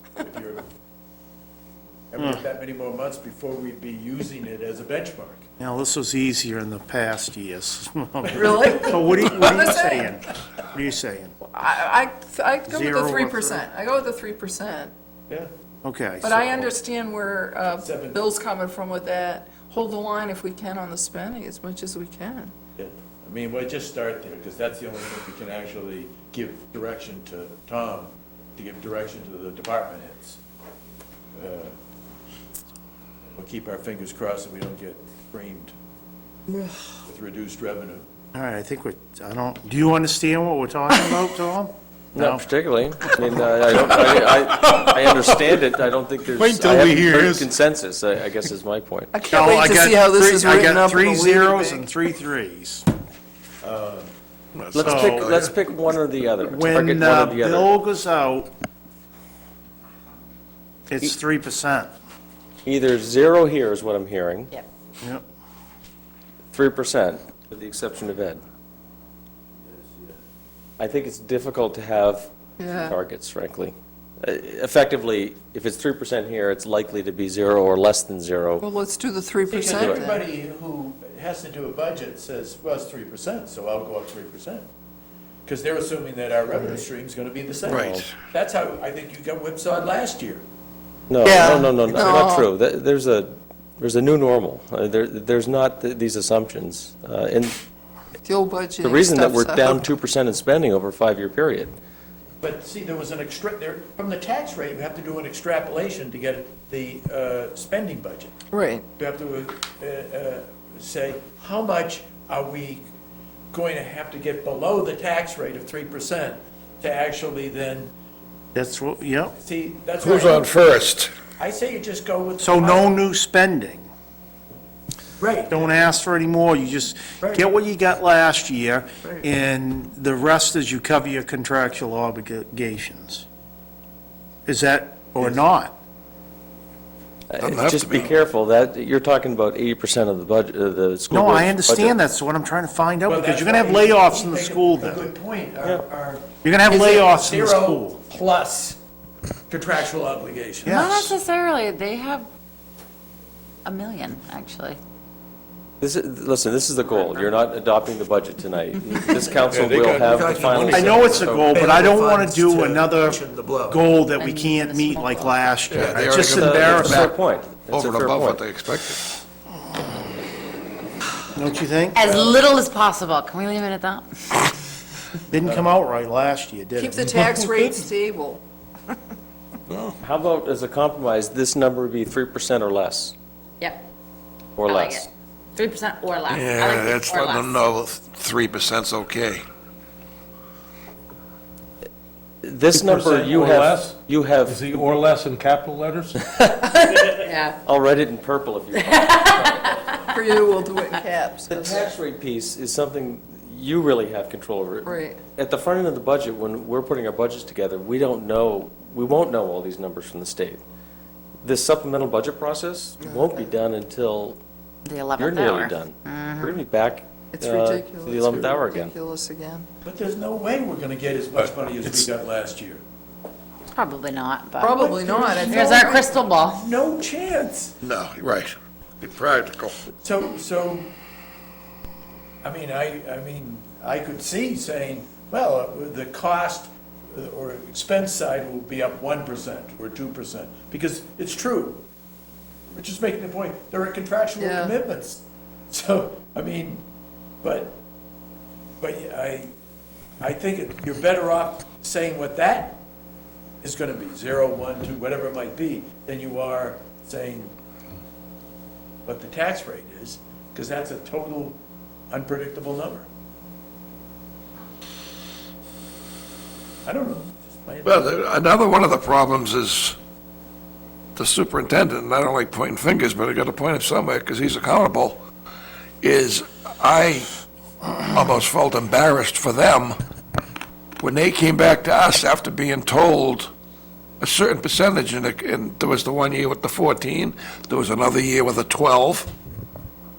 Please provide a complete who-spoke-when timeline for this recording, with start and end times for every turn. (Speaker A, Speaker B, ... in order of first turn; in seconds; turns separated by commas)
Speaker A: 0.2-0.6, Speaker A: 2.1-5.5, Speaker B: 5.6-11.3, Speaker A: 8.2-9.1, Speaker C: 11.6-14.9, Speaker B: 12.7-13.7, Speaker B: 15.8-16.7, Speaker C: 16.2-22.5, Speaker A: 17.8-18.2, Speaker A: 22.8-30.4, Speaker A: 31.3-31.7, Speaker A: 33.4-35.7, Speaker A: 37.0-38.0, Speaker B: 38.3-42.5, Speaker D: 42.1-49.1, Speaker E: 46.3-47.5, Speaker C: 49.1-51.8, Speaker B: 49.3-52.9, Speaker A: 53.6-54.1, Speaker F: 54.5-55.5, Speaker D: 54.7-57.7, Speaker B: 54.8-55.3, Speaker B: 56.4-58.5, Speaker B: 60.9-61.9, Speaker D: 62.6-64.5, Speaker D: 66.5-68.4, Speaker D: 70.8-78.7, Speaker C: 72.6-72.9, Speaker C: 78.6-80.2, Speaker A: 79.5-84.7, Speaker D: 79.7-80.1, Speaker A: 85.5-90.4, Speaker F: 87.6-88.1, Speaker D: 87.7-88.0, Speaker D: 91.1-97.6, Speaker C: 91.2-92.5, Speaker C: 98.2-99.8, Speaker D: 98.8-101.7, Speaker A: 102.4-108.3, Speaker C: 108.5-108.8, Speaker A: 108.9-112.9, Speaker A: 113.5-117.9, Speaker B: 118.5-119.3, Speaker A: 119.4-120.5, Speaker F: 120.0-121.1, Speaker A: 121.4-123.0, Speaker B: 122.4-123.9, Speaker A: 125.2-125.9, Speaker B: 125.5-133.3, Speaker A: 127.2-127.5, Speaker B: 134.5-135.8, Speaker A: 135.2-135.5, Speaker D: 137.3-142.0, Speaker F: 137.4-138.2, Speaker B: 141.1-145.1, Speaker A: 143.0-148.8, Speaker B: 146.4-148.0, Speaker A: 149.5-150.8, Speaker B: 150.7-151.2, Speaker G: 150.7-152.3, Speaker G: 153.7-154.8, Speaker D: 155.8-161.5, Speaker G: 156.8-157.3, Speaker E: 159.5-160.7, Speaker F: 160.0-161.2, Speaker B: 160.7-167.0, Speaker A: 161.2-163.8, Speaker G: 164.2-165.6, Speaker F: 165.7-169.0, Speaker D: 166.2-168.4, Speaker B: 171.3-172.2, Speaker G: 171.9-174.1, Speaker B: 175.3-177.1, Speaker C: 176.9-178.4, Speaker E: 177.4-177.7, Speaker E: 179.7-180.0, Speaker D: 180.0-183.2, Speaker D: 184.6-185.1, Speaker G: 184.7-187.5, Speaker F: 186.3-189.4, Speaker D: 192.4-194.7, Speaker E: 192.7-196.2, Speaker D: 196.2-199.7, Speaker G: 197.2-197.6, Speaker G: 198.8-199.8, Speaker C: 200.1-201.7, Speaker D: 201.5-210.6, Speaker C: 204.8-205.2, Speaker D: 211.4-214.4, Speaker G: 214.8-216.6, Speaker D: 215.2-218.9, Speaker C: 217.3-219.7, Speaker A: 219.8-222.8, Speaker G: 223.7-224.7, Speaker C: 224.6-226.0, Speaker A: 224.6-227.7, Speaker G: 225.5-226.6, Speaker F: 227.8-229.8, Speaker A: 229.9-230.9, Speaker A: 232.4-241.8, Speaker A: 242.7-246.8, Speaker C: 244.4-244.7, Speaker A: 247.4-247.8, Speaker A: 248.8-249.5, Speaker A: 250.2-252.8, Speaker A: 253.6-257.5, Speaker A: 259.1-261.6, Speaker A: 262.1-263.1, Speaker A: 266.9-268.1, Speaker F: 267.9-270.0, Speaker F: 271.1-275.2, Speaker F: 276.0-277.3, Speaker F: 278.1-280.0, Speaker F: 281.0-283.5, Speaker F: 284.2-289.3